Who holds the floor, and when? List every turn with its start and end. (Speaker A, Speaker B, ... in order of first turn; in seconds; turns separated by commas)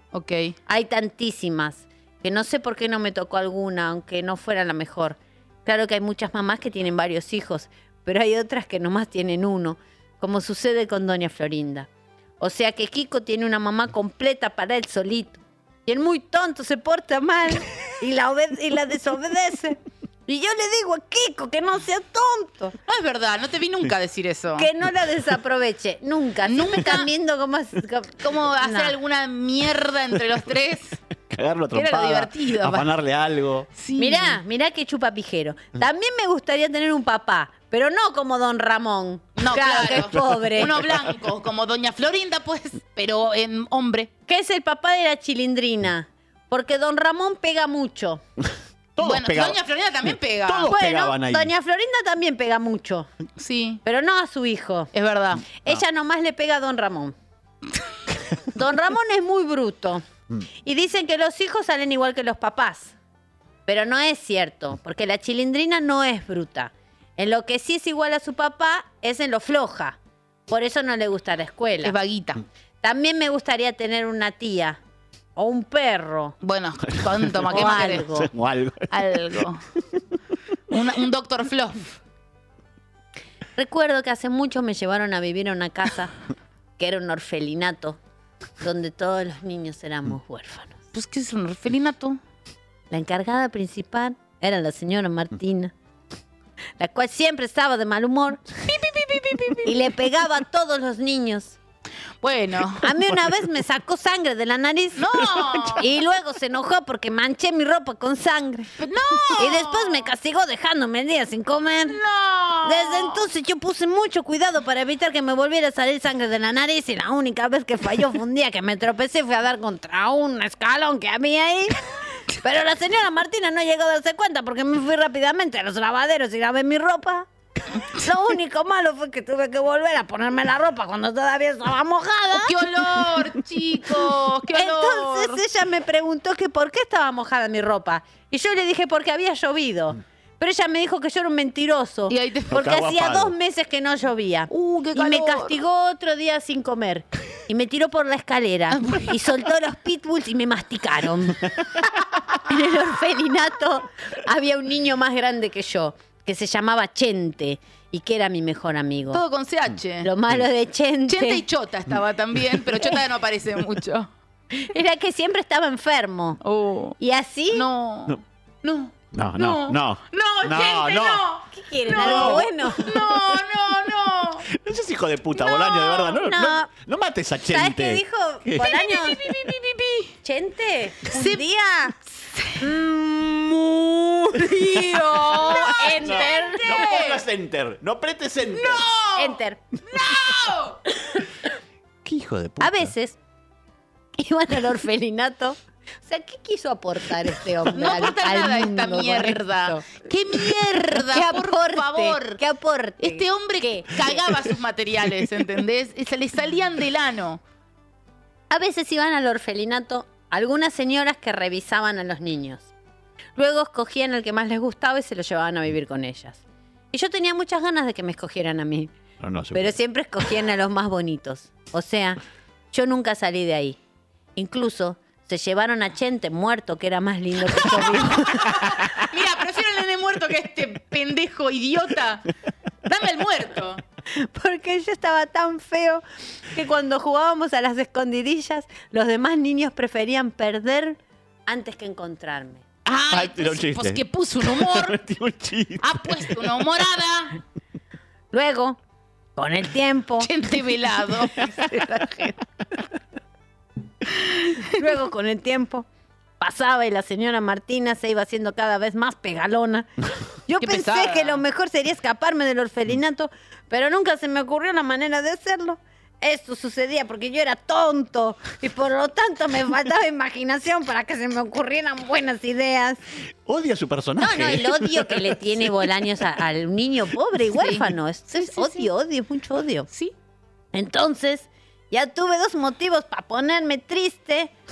Speaker A: 0.1-0.6, Speaker B: 0.7-11.9, Speaker B: 12.4-22.8, Speaker A: 22.9-24.7, Speaker B: 24.6-28.9, Speaker A: 26.4-27.1, Speaker A: 28.2-31.0, Speaker C: 31.3-33.7, Speaker A: 31.7-32.9, Speaker A: 33.8-34.4, Speaker B: 34.0-40.8, Speaker A: 39.4-44.1, Speaker B: 44.3-48.2, Speaker C: 49.0-49.6, Speaker A: 49.0-50.7, Speaker C: 50.1-51.5, Speaker B: 50.7-53.1, Speaker A: 53.4-53.8, Speaker B: 53.9-54.9, Speaker A: 54.9-55.5, Speaker B: 55.6-57.1, Speaker B: 58.5-60.0, Speaker B: 60.6-63.0, Speaker B: 63.7-70.0, Speaker B: 70.5-72.0, Speaker A: 71.8-72.4, Speaker B: 72.8-74.8, Speaker B: 75.4-76.4, Speaker A: 76.4-78.0, Speaker C: 77.4-78.9, Speaker B: 77.5-78.3, Speaker A: 78.9-79.6, Speaker A: 80.7-81.9, Speaker B: 83.6-86.1, Speaker B: 86.8-88.0, Speaker B: 88.6-90.8, Speaker A: 90.9-92.2, Speaker B: 92.9-95.7, Speaker B: 96.8-98.4, Speaker A: 98.7-99.7, Speaker B: 99.7-101.6, Speaker A: 102.2-102.9, Speaker B: 102.8-105.2, Speaker A: 105.0-105.8, Speaker B: 105.8-108.7, Speaker A: 108.8-110.1, Speaker B: 109.4-112.0, Speaker A: 111.9-113.2, Speaker B: 112.6-121.8, Speaker B: 122.4-127.3, Speaker B: 128.0-132.5, Speaker A: 132.4-135.4, Speaker B: 134.5-151.4, Speaker A: 142.1-142.6, Speaker C: 142.5-143.3, Speaker A: 144.5-145.6, Speaker A: 148.8-149.1, Speaker B: 152.5-159.2, Speaker A: 159.1-160.1, Speaker B: 160.0-161.4, Speaker A: 161.1-164.1, Speaker B: 164.6-166.4, Speaker A: 166.4-167.0, Speaker B: 167.0-167.7, Speaker A: 167.5-174.5, Speaker C: 169.1-171.2, Speaker B: 171.5-173.0, Speaker C: 171.9-172.5, Speaker C: 174.5-178.7, Speaker A: 175.5-176.1, Speaker B: 176.2-176.7, Speaker B: 177.5-179.2, Speaker A: 178.6-180.1, Speaker B: 180.2-181.9, Speaker A: 181.1-181.4, Speaker B: 182.6-186.9, Speaker A: 184.5-187.2, Speaker C: 185.4-188.9, Speaker A: 188.5-189.4, Speaker B: 189.2-189.6, Speaker A: 189.9-190.8, Speaker C: 192.0-192.9, Speaker B: 192.6-193.2, Speaker B: 194.2-199.8, Speaker A: 197.7-202.4, Speaker B: 201.1-204.2, Speaker A: 203.0-207.4, Speaker B: 208.5-212.7, Speaker B: 213.4-216.4, Speaker B: 216.9-218.9, Speaker C: 219.2-219.8, Speaker B: 219.5-222.2, Speaker B: 222.7-223.8, Speaker B: 224.4-228.9, Speaker A: 228.5-232.3, Speaker A: 232.9-233.8, Speaker B: 234.2-242.6, Speaker A: 242.9-245.0, Speaker C: 243.1-246.3, Speaker A: 245.8-247.4, Speaker B: 248.3-248.8, Speaker B: 249.4-250.3, Speaker A: 250.2-252.4, Speaker A: 254.2-254.7, Speaker B: 254.8-255.9, Speaker B: 256.4-259.9, Speaker B: 260.5-273.0, Speaker A: 260.6-261.4, Speaker C: 273.4-275.3, Speaker B: 274.2-279.9, Speaker A: 277.5-278.9, Speaker B: 280.7-284.5